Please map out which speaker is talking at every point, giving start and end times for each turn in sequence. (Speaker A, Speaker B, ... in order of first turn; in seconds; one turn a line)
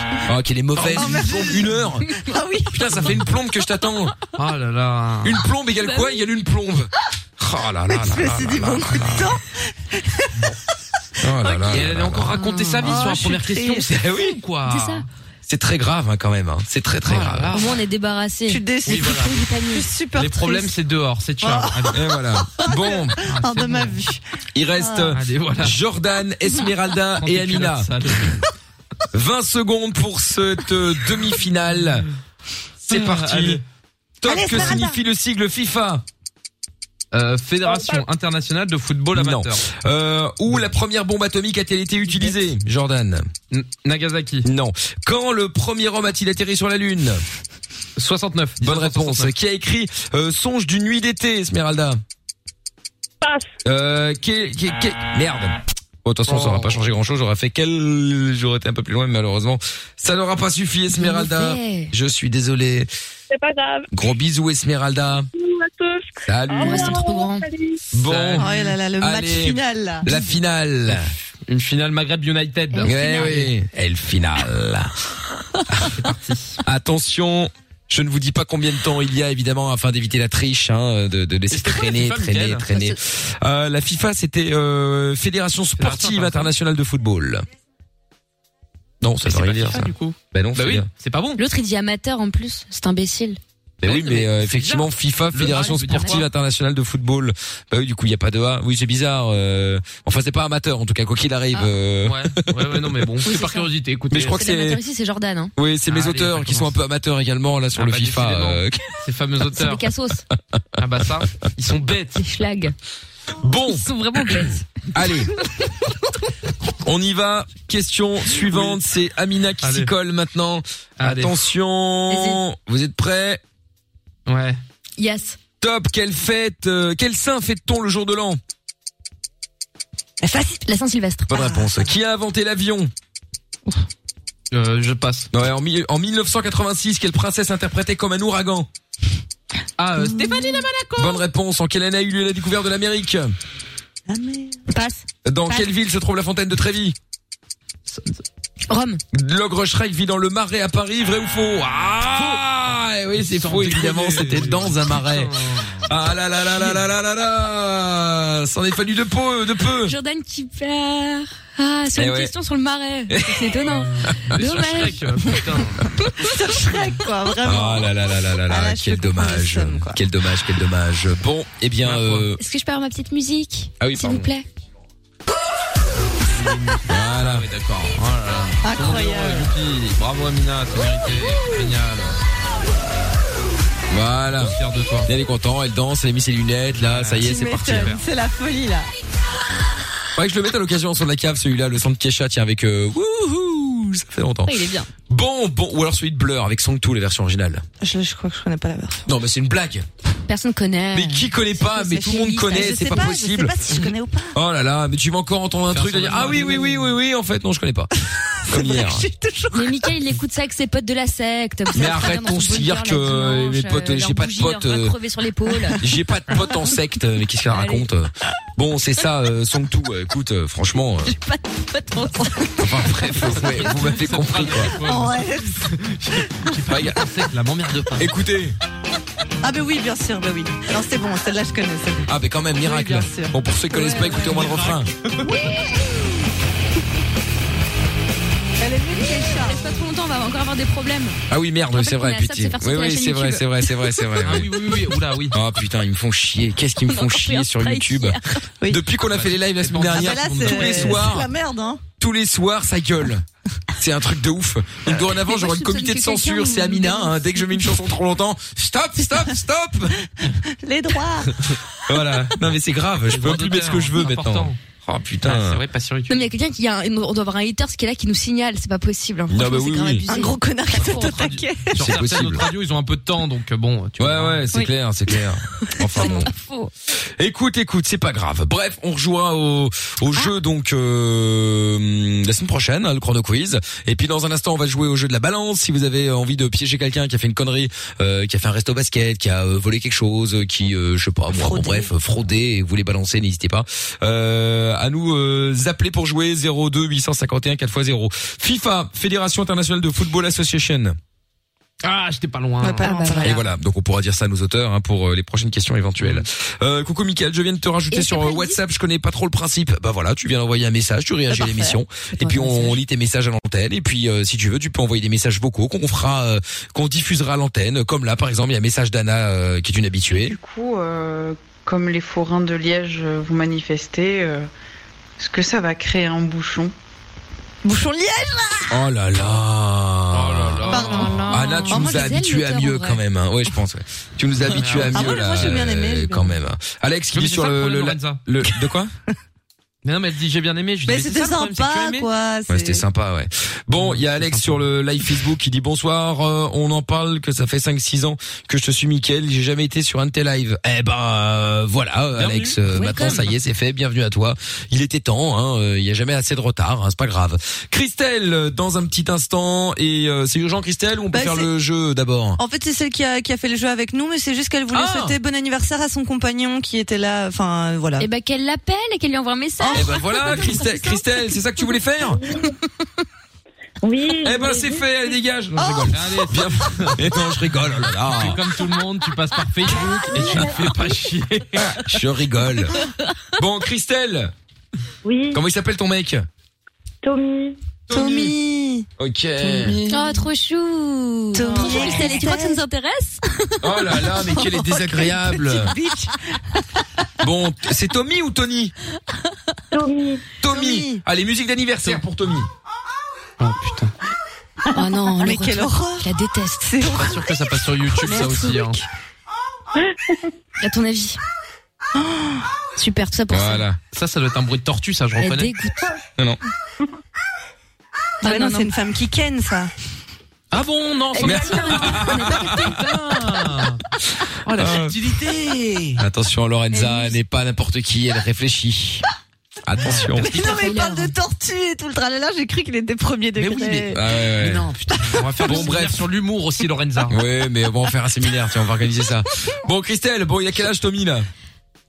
Speaker A: 0.3-2.2
Speaker B: 0.9-2.9
Speaker A: 2.7-4.2
Speaker C: 4.3-5.4
Speaker A: 5.2-9.4
Speaker D: 5.8-6.2
Speaker B: 7.9-10.5
Speaker A: 11.2-12.4
Speaker C: 11.7-15.1
Speaker D: 12.3-13.1
Speaker B: 12.8-13.9
Speaker A: 13.9-14.4
Speaker D: 14.7-15.1
Speaker A: 15.5-17.5
Speaker C: 17.1-17.8
Speaker D: 17.5-19.9
Speaker B: 18.5-20.7
Speaker C: 18.9-19.4
Speaker C: 20.2-22.0
Speaker B: 21.4-22.0
Speaker A: 21.9-23.2
Speaker B: 22.5-24.2
Speaker C: 23.2-24.0
Speaker A: 24.6-27.9
Speaker B: 24.8-25.2
Speaker C: 25.1-25.8
Speaker C: 27.2-28.4
Speaker A: 29.1-32.1
Speaker A: 32.8-33.6
Speaker C: 32.9-33.6
Speaker A: 34.2-36.0
Speaker B: 34.2-35.0
Speaker C: 37.1-39.6
Speaker A: 39.1-43.3
Speaker C: 43.5-44.5
Speaker A: 44.5-47.2
Speaker C: 48.0-49.3
Speaker A: 48.6-52.0
Speaker A: 53.6-62.9
Speaker C: 56.3-56.8
Speaker D: 60.9-61.9
Speaker A: 63.9-65.3
Speaker A: 66.2-67.0
Speaker D: 66.6-67.5
Speaker A: 67.9-71.1
Speaker C: 68.0-68.8
Speaker B: 68.4-70.1
Speaker C: 71.5-73.5
Speaker D: 72.7-73.4
Speaker A: 72.8-74.9
Speaker A: 75.7-76.0
Speaker C: 75.9-76.6
Speaker A: 76.6-87.5
Speaker C: 81.5-82.7
Speaker D: 82.7-83.0
Speaker C: 85.8-86.5
Speaker A: 89.0-90.9
Speaker C: 89.2-91.4
Speaker D: 91.4-93.4
Speaker A: 93.8-103.3
Speaker C: 93.8-96.3
Speaker D: 95.9-96.2
Speaker C: 102.0-104.4
Speaker D: 103.3-103.7
Speaker A: 104.1-104.8
Speaker D: 104.2-105.5
Speaker A: 105.6-109.0
Speaker C: 105.9-106.7
Speaker C: 107.8-109.9
Speaker D: 109.6-110.2
Speaker C: 110.8-112.2
Speaker D: 112.2-112.8
Speaker A: 113.4-113.9
Speaker D: 113.7-114.6
Speaker A: 114.9-115.3
Speaker A: 116.8-123.4
Speaker C: 118.4-118.8
Speaker C: 119.6-119.9
Speaker C: 121.0-121.4
Speaker D: 122.1-122.4
Speaker C: 124.3-124.6
Speaker D: 125.0-125.4
Speaker A: 125.6-128.4
Speaker B: 130.2-130.6
Speaker D: 130.7-131.4
Speaker A: 131.3-132.9
Speaker B: 131.3-131.8
Speaker C: 134.5-135.3
Speaker A: 135.3-138.7
Speaker C: 139.8-141.2
Speaker A: 141.0-143.3
Speaker B: 144.1-145.0
Speaker A: 145.2-147.0
Speaker C: 147.9-148.2
Speaker D: 148.7-149.0
Speaker A: 149.1-160.0
Speaker C: 153.2-155.9
Speaker D: 159.8-165.0
Speaker A: 162.0-162.3
Speaker A: 163.1-164.9
Speaker C: 164.0-165.9
Speaker B: 166.2-167.9
Speaker A: 167.4-172.4
Speaker B: 168.4-170.0
Speaker C: 171.8-172.3
Speaker D: 172.4-174.5
Speaker A: 173.8-174.3
Speaker C: 176.3-182.2
Speaker A: 176.9-177.5
Speaker B: 178.6-179.5
Speaker A: 183.9-188.0
Speaker C: 184.4-185.1
Speaker C: 186.8-188.0
Speaker B: 187.2-188.9
Speaker A: 190.2-197.6
Speaker D: 194.4-194.9
Speaker B: 197.8-199.1
Speaker A: 199.1-199.9
Speaker D: 200.3-202.9
Speaker A: 200.9-209.1
Speaker B: 201.7-204.4
Speaker C: 205.7-207.0
Speaker B: 208.4-209.9
Speaker D: 209.5-215.8
Speaker A: 211.7-215.0
Speaker A: 215.8-221.2
Speaker D: 217.5-217.9
Speaker D: 221.1-222.6
Speaker A: 222.6-224.8
Speaker C: 223.2-228.1
Speaker B: 224.8-225.7
Speaker A: 226.7-227.1
Speaker A: 228.0-228.6
Speaker B: 229.4-232.1
Speaker A: 232.1-234.9
Speaker C: 232.6-233.1
Speaker B: 232.8-233.4
Speaker C: 233.7-235.5
Speaker B: 235.3-235.8
Speaker B: 238.6-239.8
Speaker D: 239.3-241.2
Speaker A: 241.3-244.7
Speaker D: 241.7-244.2
Speaker C: 244.2-245.4
Speaker A: 245.3-251.3
Speaker D: 246.9-248.4
Speaker C: 249.1-251.1
Speaker B: 249.9-251.8
Speaker A: 252.0-253.2
Speaker A: 253.8-260.0
Speaker D: 255.1-257.4
Speaker B: 260.4-261.4
Speaker A: 261.9-265.6
Speaker C: 263.1-264.6
Speaker C: 265.2-266.2
Speaker D: 266.1-271.3
Speaker A: 269.3-270.1
Speaker B: 270.1-271.9
Speaker C: 270.8-274.4
Speaker A: 271.8-272.5
Speaker A: 274.0-276.3
Speaker D: 275.8-276.7
Speaker B: 275.9-276.2
Speaker A: 277.2-301.0
Speaker B: 291.3-291.9
Speaker C: 301.8-303.1
Speaker B: 302.6-303.4
Speaker D: 302.8-303.4
Speaker A: 303.2-320.4
Speaker C: 306.0-306.2
Speaker D: 307.9-308.6
Speaker B: 311.4-311.7
Speaker D: 312.2-312.8
Speaker E: 320.1-324.5
Speaker E: 325.2-326.7
Speaker B: 327.6-328.8
Speaker A: 328.7-338.9
Speaker C: 330.1-331.3
Speaker B: 330.7-332.1
Speaker D: 330.9-333.0
Speaker C: 334.5-335.3
Speaker B: 334.8-336.4
Speaker C: 337.1-338.2
Speaker C: 339.8-342.1
Speaker B: 340.9-342.8
Speaker A: 342.5-362.4
Speaker C: 343.8-344.7
Speaker C: 352.1-353.3
Speaker D: 352.7-353.2
Speaker B: 361.1-361.5
Speaker B: 362.4-368.1
Speaker A: 364.7-365.2
Speaker D: 368.0-371.0
Speaker B: 369.6-370.6
Speaker A: 369.7-372.2
Speaker F: 372.2-372.5
Speaker F: 373.8-374.9
Speaker A: 374.2-378.5
Speaker C: 375.9-377.1
Speaker C: 378.1-381.8
Speaker F: 379.7-380.7
Speaker A: 380.2-380.6
Speaker A: 381.6-382.8
Speaker A: 383.4-384.3
Speaker F: 385.0-385.4
Speaker A: 385.3-386.3
Speaker F: 387.0-387.6
Speaker A: 387.9-388.4
Speaker B: 387.9-388.9
Speaker A: 389.0-389.8
Speaker B: 389.4-390.2
Speaker D: 389.9-393.6
Speaker B: 391.3-392.6
Speaker A: 393.6-395.8
Speaker B: 394.1-396.6
Speaker A: 397.2-398.7
Speaker F: 399.7-400.2
Speaker A: 400.4-402.5
Speaker B: 400.5-401.0
Speaker C: 403.4-403.9
Speaker D: 404.7-406.8
Speaker B: 405.2-406.1
Speaker B: 406.6-407.4
Speaker C: 406.9-408.8
Speaker D: 408.1-408.8
Speaker F: 409.8-410.2
Speaker D: 410.6-411.2
Speaker B: 411.9-412.5
Speaker D: 412.8-413.6
Speaker A: 413.3-413.8
Speaker C: 413.9-415.5
Speaker D: 415.2-415.9
Speaker D: 418.2-418.7
Speaker B: 418.2-419.7
Speaker C: 420.5-423.8
Speaker F: 421.2-422.1
Speaker D: 421.2-422.9
Speaker A: 421.2-422.6
Speaker C: 424.4-426.0
Speaker A: 424.5-425.0
Speaker A: 426.0-429.1
Speaker D: 426.7-427.2
Speaker A: 429.7-430.4
Speaker C: 429.8-430.2
Speaker B: 430.2-434.0
Speaker D: 430.2-431.1
Speaker C: 433.4-437.2
Speaker A: 433.9-434.7
Speaker A: 435.4-436.1
Speaker A: 437.1-441.3